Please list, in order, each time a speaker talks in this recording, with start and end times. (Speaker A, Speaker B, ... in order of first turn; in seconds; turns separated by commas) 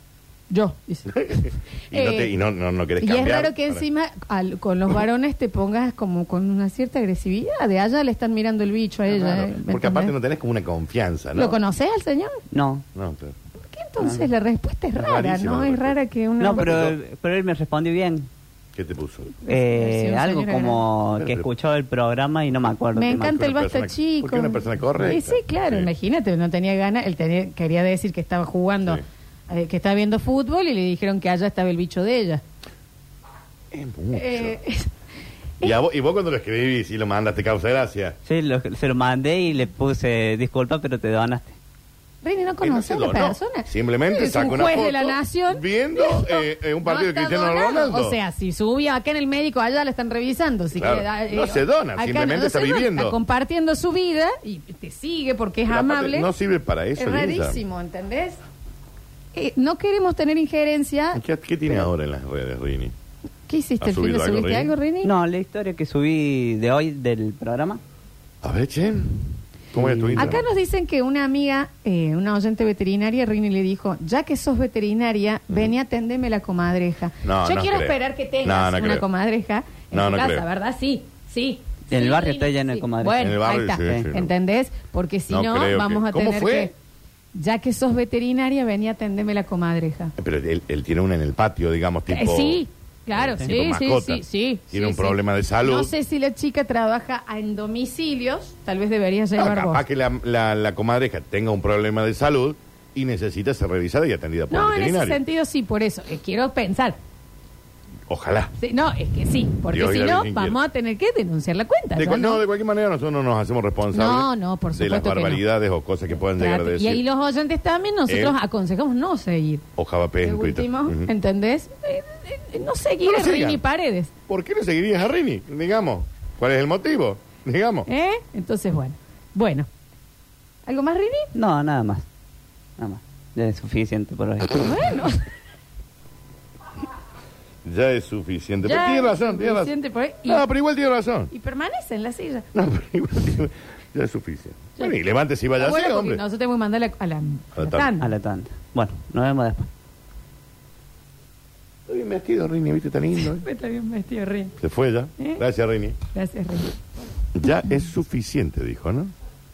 Speaker A: 0.5-2.3, Speaker B: 1.1-3.8, Speaker A: 3.0-10.1, Speaker B: 9.1-11.6, Speaker A: 11.3-12.4, Speaker C: 12.5-12.8, Speaker B: 12.9-13.3, Speaker A: 13.6-16.8, Speaker B: 14.9-16.0, Speaker C: 16.4-18.3, Speaker B: 16.5-16.9, Speaker B: 18.7-19.4, Speaker A: 19.4-20.8, Speaker C: 19.5-23.3, Speaker B: 21.1-21.5, Speaker A: 22.9-32.4, Speaker B: 23.2-25.9, Speaker B: 33.7-34.6, Speaker A: 34.1-34.9, Speaker B: 35.6-38.2, Speaker C: 38.2-41.5, Speaker A: 42.2-56.3, Speaker B: 42.6-48.2, Speaker B: 50.7-53.2, Speaker B: 55.7-57.6, Speaker A: 57.0-58.4, Speaker A: 59.3-61.9, Speaker B: 61.1-62.9, Speaker A: 63.5-65.1, Speaker B: 63.8-64.7, Speaker C: 65.0-67.8, Speaker B: 68.4-69.2, Speaker B: 69.7-70.4, Speaker C: 69.8-70.4, Speaker A: 70.2-86.7, Speaker B: 77.2-79.0, Speaker B: 79.9-80.4, Speaker C: 81.9-84.1, Speaker B: 83.2-84.3, Speaker B: 85.3-86.7, Speaker A: 87.3-90.1, Speaker B: 90.2-92.6, Speaker A: 92.1-99.8, Speaker B: 93.1-95.9, Speaker B: 99.4-105.2, Speaker A: 104.5-107.0, Speaker B: 108.1-108.5, Speaker A: 108.6-112.4, Speaker B: 109.7-110.6, Speaker B: 111.9-117.0, Speaker A: 113.9-115.4, Speaker A: 116.3-119.6, Speaker B: 118.1-118.4, Speaker B: 119.8-121.1, Speaker A: 120.2-124.1, Speaker B: 123.0-123.6, Speaker B: 124.3-127.9, Speaker A: 127.9-129.7, Speaker A: 130.7-131.3, Speaker C: 131.3-132.0, Speaker C: 132.8-134.7, Speaker A: 134.5-135.2, Speaker B: 137.6-139.7, Speaker A: 138.6-140.4, Speaker B: 140.2-141.3, Speaker A: 141.3-142.4, Speaker B: 142.5-146.2, Speaker A: 145.6-148.1, Speaker B: 147.6-147.9, Speaker C: 148.0-149.7, Speaker B: 151.9-153.4, Speaker A: 153.4-154.5, Speaker B: 154.6-156.0, Speaker A: 156.1-156.7, Speaker B: 157.3-159.1